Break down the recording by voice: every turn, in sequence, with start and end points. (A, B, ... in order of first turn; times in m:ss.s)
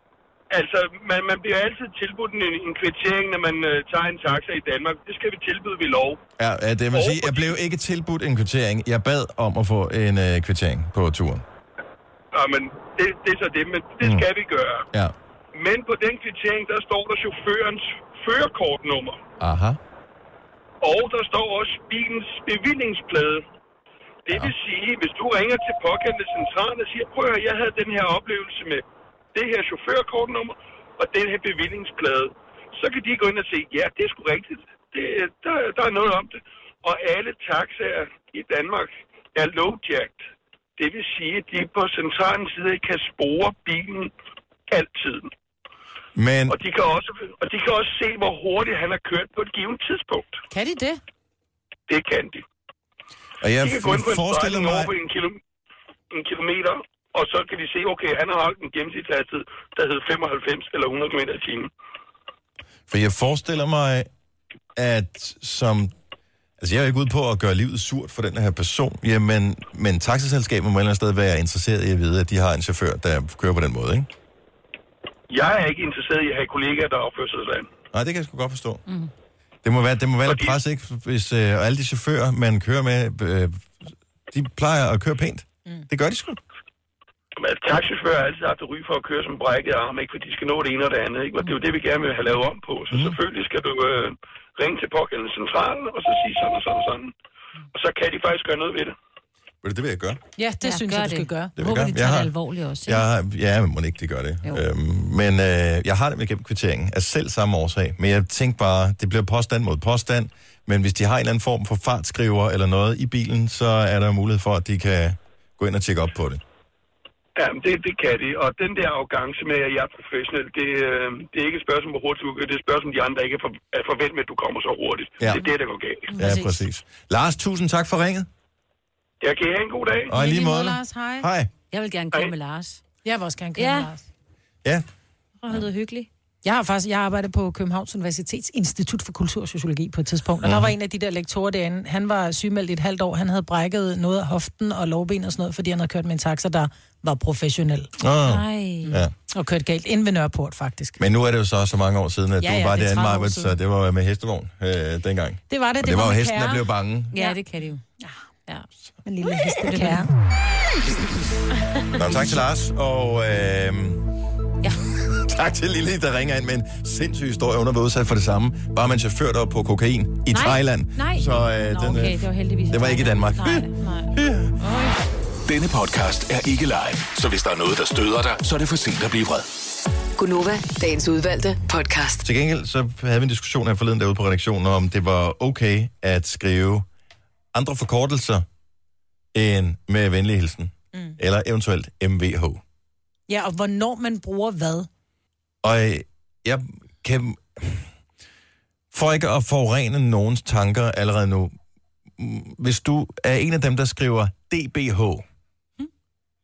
0:00.5-0:06.2 A
0:06.4-0:11.4 B
0:06.9-0:07.6 A
0:12.3-0:14.9 A
0:14.0-0:14.3 B
0:15.5-0:19.2 A
0:19.4-0:19.8 B
0:20.8-0:23.4 A
0:24.3-0:44.1 A
0:44.7-0:45.3 A
0:46.2-0:46.6 B
0:46.5-0:50.4 A
0:50.5-0:51.0 C
0:51.9-0:52.4 A
0:53.4-0:54.9 B
0:53.6-0:55.4 A
0:56.1-1:01.7 A
1:02.9-1:04.1 B
1:04.8-1:05.9 B
1:06.6-1:14.1 B
1:15.3-1:17.7 A
1:17.9-1:18.8 B
1:19.6-1:23.8 B
1:20.2-1:20.6 A
1:24.3-1:26.4 B
1:27.4-1:37.1 A
1:32.9-1:33.2 B
1:37.7-1:39.0 A
1:39.6-1:40.2 B
1:40.4-1:41.6 C
1:40.6-1:43.0 D
1:41.6-1:42.3 B
1:42.9-1:56.4 B
1:57.4-2:06.1 A
2:06.1-2:06.4 D
2:06.2-2:08.3 B
2:06.2-2:06.5 C
2:09.2-2:10.2 A
2:10.1-2:11.5 B
2:10.1-2:11.3 C
2:11.7-2:12.8 D
2:13.0-2:14.1 C
2:13.6-2:13.9 D
2:15.4-2:16.1 D
2:16.4-2:27.9 C
2:20.4-2:20.8 B
2:28.0-2:29.1 B
2:28.2-2:28.9 D
2:28.8-2:31.0 C
2:31.0-2:37.1 B
2:32.4-2:33.6 C
2:35.5-2:37.4 C
2:37.1-2:37.8 D
2:39.1-2:40.1 C
2:39.6-2:40.0 D
2:42.0-2:44.0 B
2:45.0-2:54.6 B
2:50.3-2:55.0 D
2:55.5-2:59.5 E
3:00.2-3:02.2 F
3:02.2-3:06.9 B
3:07.5-3:08.4 B
3:09.3-3:12.6 B
3:13.3-3:14.9 C
3:15.6-3:17.9 B
3:18.9-3:21.6 B
3:22.2-3:25.2 B